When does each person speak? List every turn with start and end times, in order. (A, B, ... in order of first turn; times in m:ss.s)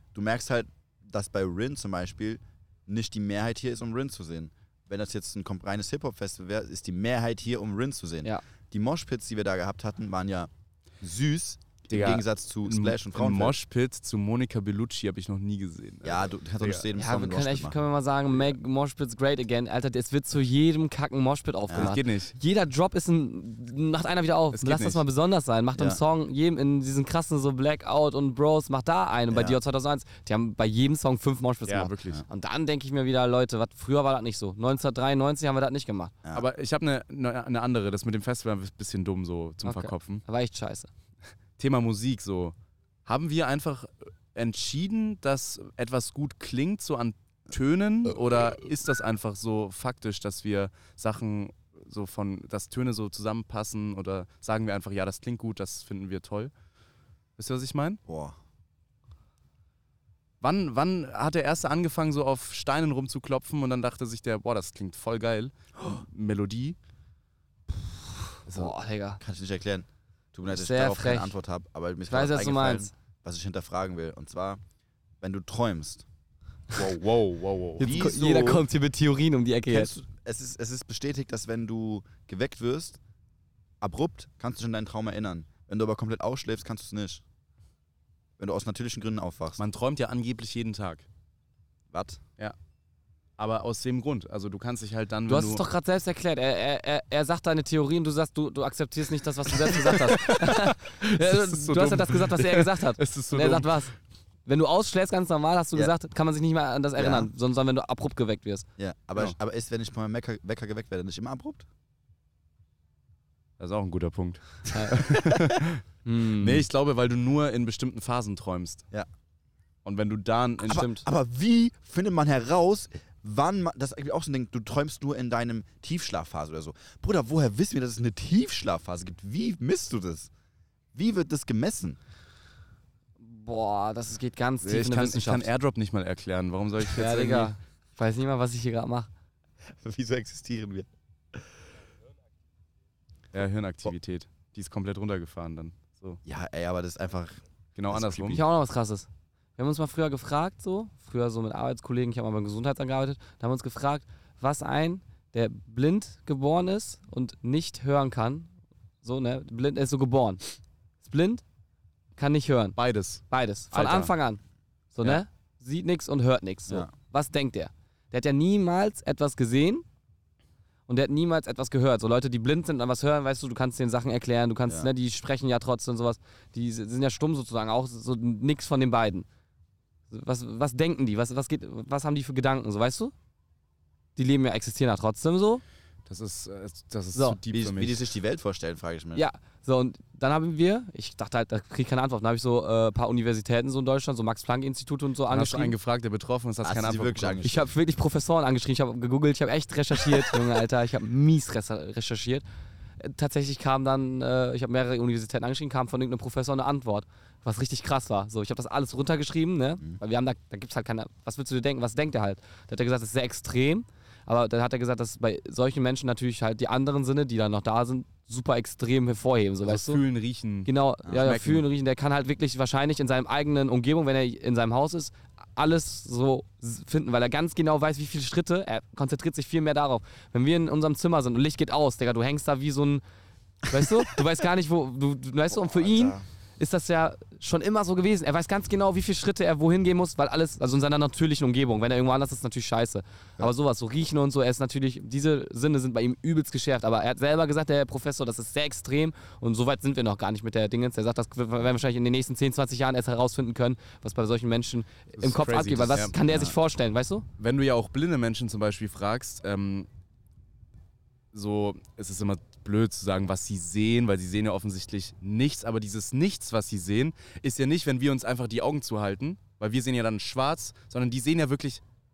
0:00.1-0:10.5 A
0:11.0-0:13.6 A
0:11.9-0:16.8 B
0:16.0-0:17.8 A
0:17.0-0:36.1 C
0:21.7-0:22.0 A
0:21.7-0:22.4 B
0:24.5-0:25.0 B
0:25.8-0:26.0 A
0:29.3-0:29.6 A
0:31.7-0:32.2 B
0:36.3-0:40.2 B
0:39.6-0:40.9 C
0:41.6-0:42.5 B
0:43.1-0:56.5 B
0:57.4-0:58.0 B
0:58.1-0:58.4 A
1:00.4-1:06.8 B
1:08.5-1:09.2 C
1:09.2-1:14.6 A
1:10.5-1:11.3 C
1:12.1-1:12.9 C
1:15.2-1:16.1 A
1:16.7-1:17.9 B
1:17.8-1:19.9 C
1:17.8-1:18.7 A
1:19.7-1:23.0 A
1:23.8-1:27.2 A
1:28.4-1:29.6 A
1:29.6-1:31.1 B
1:31.9-1:32.2 A
1:33.4-1:35.6 B
1:35.3-1:43.9 C
1:39.7-1:43.8 B
1:44.5-1:48.6 C
1:47.0-1:47.3 A
1:48.8-1:51.7 A
1:53.6-1:55.8 B
1:54.7-1:55.3 C
1:56.0-1:56.7 C
1:56.4-1:58.8 B
1:59.8-2:00.9 B
2:00.6-2:10.3 A
2:00.7-2:01.0 C
2:10.9-2:12.0 A
2:13.2-2:15.5 C
2:14.6-2:17.6 B
2:16.9-2:19.1 C
2:19.7-2:21.5 A
2:23.3-2:26.2 B
2:26.2-2:28.4 A
2:27.8-2:28.4 B
2:28.2-2:38.5 C
2:39.0-2:40.4 C
2:41.0-2:41.4 C
2:42.2-2:42.8 C
2:42.8-2:44.1 B
2:43.3-2:44.4 C
2:44.9-2:49.8 C
2:50.9-2:59.3 C
3:00.1-3:03.1 C
3:04.2-3:05.6 C
3:06.1-3:08.0 B
3:07.1-3:07.4 C
3:07.5-3:09.3 A
3:09.1-3:15.8 C
3:15.3-3:17.4 B
3:16.6-3:17.7 A
3:17.4-3:22.4 C
3:23.0-3:40.0 C
3:39.7-3:41.6 B
3:40.7-3:53.0 C
3:53.7-4:17.3 C
3:55.5-3:56.2 A
4:15.2-4:16.1 B
4:16.3-4:16.6 A
4:17.4-4:19.9 B
4:21.3-4:31.8 B